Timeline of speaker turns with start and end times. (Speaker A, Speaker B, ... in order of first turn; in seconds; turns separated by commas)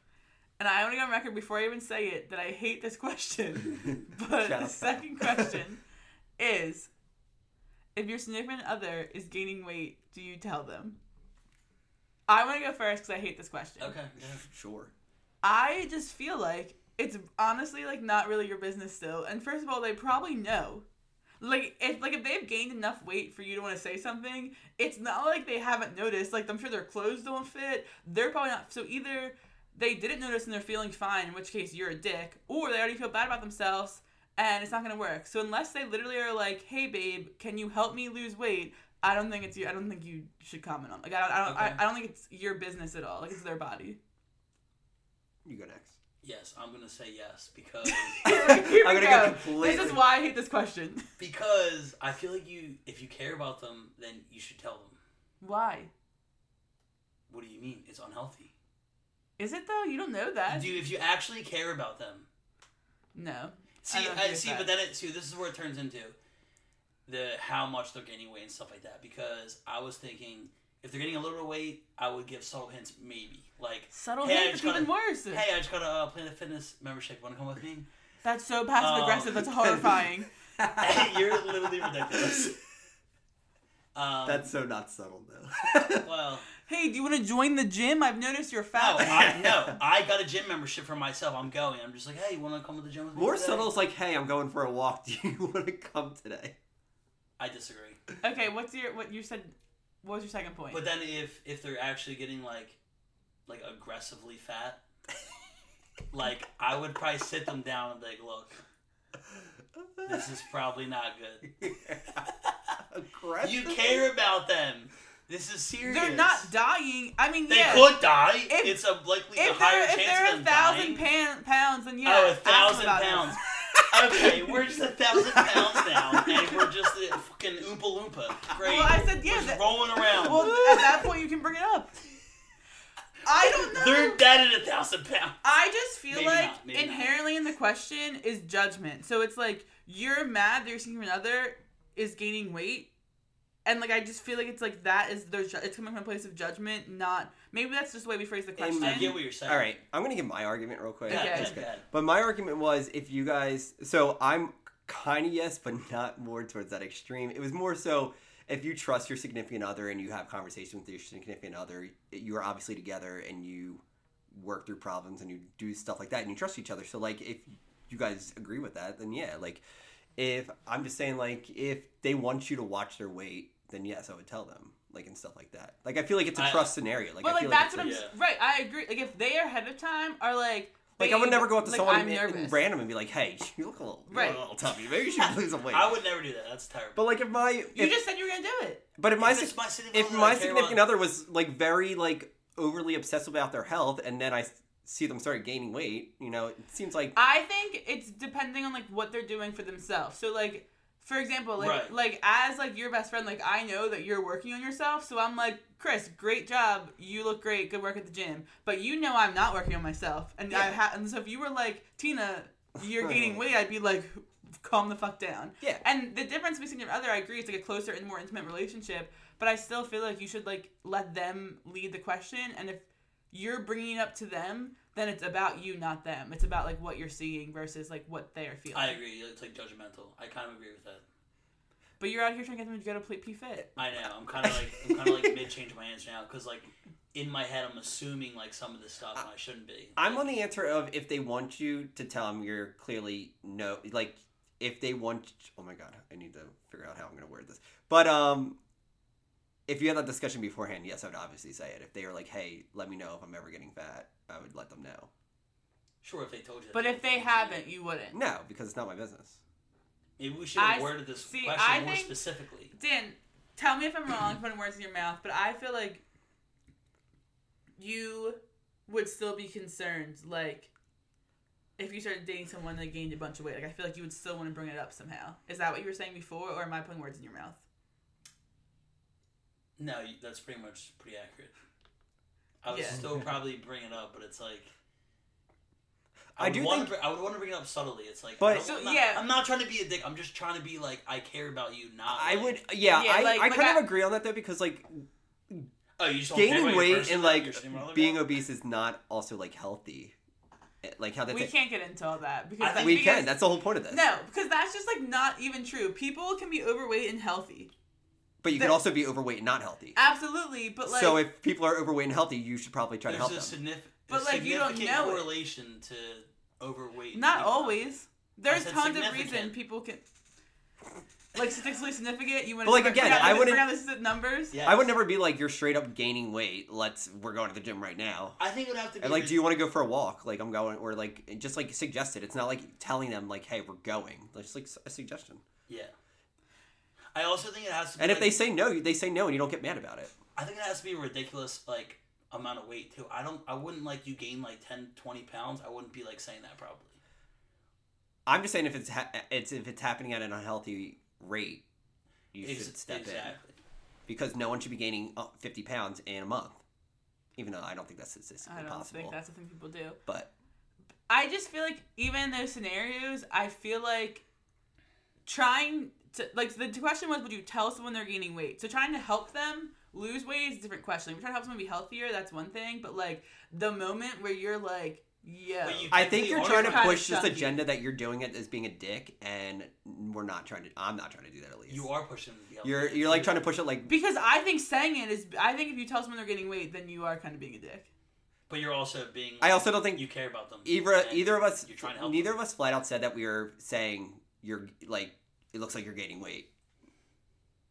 Speaker A: 0.6-5.8, Speaker B: 3.9-5.6, Speaker A: 6.4-6.9, Speaker A: 8.0-11.0, Speaker A: 12.3-14.0, Speaker C: 13.8-14.5, Speaker B: 14.2-14.9, Speaker A: 15.4-20.9, Speaker A: 21.4-44.0, Speaker C: 41.5-41.8, Speaker B: 45.5-46.0, Speaker C: 46.2-48.2, Speaker A: 47.9-51.1, Speaker B: 48.2-50.0, Speaker C: 51.2-55.0, Speaker A: 55.4-55.9, Speaker C: 57.3-58.5, Speaker A: 59.4-60.7, Speaker C: 60.5-62.3, Speaker A: 63.1-64.7, Speaker C: 63.8-66.2, Speaker C: 67.1-77.9, Speaker A: 73.9-75.5, Speaker A: 78.2-80.3, Speaker C: 78.8-79.5, Speaker B: 79.6-82.5, Speaker C: 80.8-82.6, Speaker C: 84.0-84.5, Speaker B: 84.2-86.1, Speaker C: 85.8-86.5, Speaker A: 86.7-89.4, Speaker C: 88.8-93.7, Speaker B: 89.0-89.8, Speaker B: 93.2-96.6, Speaker C: 97.4-98.0, Speaker A: 98.2-100.8, Speaker C: 100.7-102.8, Speaker C: 103.5-104.8, Speaker C: 106.1-108.6, Speaker B: 109.4-110.3, Speaker C: 110.0-112.2, Speaker B: 111.6-112.2, Speaker B: 112.9-114.1, Speaker C: 113.4-116.5, Speaker A: 115.9-118.8, Speaker C: 117.5-121.1, Speaker A: 119.3-123.4, Speaker C: 122.0-130.6, Speaker B: 125.2-126.7, Speaker A: 128.6-131.9, Speaker B: 130.3-131.0, Speaker A: 133.2-134.2, Speaker C: 133.5-135.4, Speaker A: 135.4-142.9, Speaker C: 136.1-137.2, Speaker A: 143.7-149.2, Speaker B: 148.6-169.6, Speaker C: 148.8-149.7, Speaker C: 151.1-151.8, Speaker A: 151.1-151.6, Speaker B: 170.2-178.0, Speaker C: 176.3-176.7, Speaker A: 177.2-182.6, Speaker C: 177.8-178.2, Speaker B: 181.0-185.9, Speaker A: 184.1-184.4, Speaker C: 184.1-184.4, Speaker C: 185.1-187.0, Speaker B: 187.0-188.0, Speaker A: 187.8-188.8, Speaker B: 189.0-197.2, Speaker C: 189.2-190.9, Speaker A: 197.2-229.0, Speaker C: 201.6-201.9, Speaker B: 213.0-213.4, Speaker C: 228.7-231.0, Speaker A: 232.0-233.7, Speaker C: 233.8-240.3, Speaker B: 234.4-235.3, Speaker B: 240.0-248.6, Speaker B: 249.7-255.1, Speaker C: 256.0-257.7, Speaker A: 256.7-258.2, Speaker B: 258.1-259.4, Speaker C: 260.2-262.7, Speaker A: 260.6-262.2, Speaker A: 262.7-266.0, Speaker A: 267.8-270.7, Speaker A: 271.8-277.6, Speaker C: 279.8-281.5, Speaker C: 282.6-284.7, Speaker A: 282.7-283.0, Speaker B: 286.4-286.9, Speaker C: 286.4-292.6, Speaker B: 288.4-288.7, Speaker A: 288.6-289.2, Speaker B: 292.1-295.7, Speaker A: 292.9-293.9, Speaker C: 296.0-298.3, Speaker B: 296.3-300.1, Speaker B: 300.8-301.5, Speaker A: 301.3-303.4, Speaker C: 302.6-303.2, Speaker B: 302.8-304.0, Speaker A: 303.9-307.7, Speaker B: 308.4-310.0, Speaker A: 308.5-308.8, Speaker A: 310.0-311.2, Speaker B: 310.9-313.6, Speaker C: 313.1-317.9, Speaker A: 314.1-315.3, Speaker A: 317.1-320.0, Speaker C: 318.5-319.5, Speaker A: 321.4-324.6, Speaker B: 322.6-323.7, Speaker C: 323.0-323.5, Speaker C: 324.5-324.9, Speaker B: 324.6-328.4, Speaker C: 328.4-329.5, Speaker B: 329.0-335.4, Speaker C: 337.1-338.4, Speaker B: 338.0-340.2, Speaker C: 340.4-347.0, Speaker B: 348.3-351.6, Speaker B: 352.3-353.4, Speaker C: 352.4-353.6, Speaker B: 354.1-356.6, Speaker B: 357.4-359.2, Speaker A: 358.4-360.0, Speaker A: 361.1-364.2, Speaker A: 365.3-377.6, Speaker C: 375.6-377.1, Speaker B: 375.9-381.9, Speaker C: 381.7-383.4, Speaker B: 382.6-383.9, Speaker A: 383.9-387.9, Speaker C: 388.5-392.3, Speaker B: 389.4-390.1, Speaker B: 390.6-396.5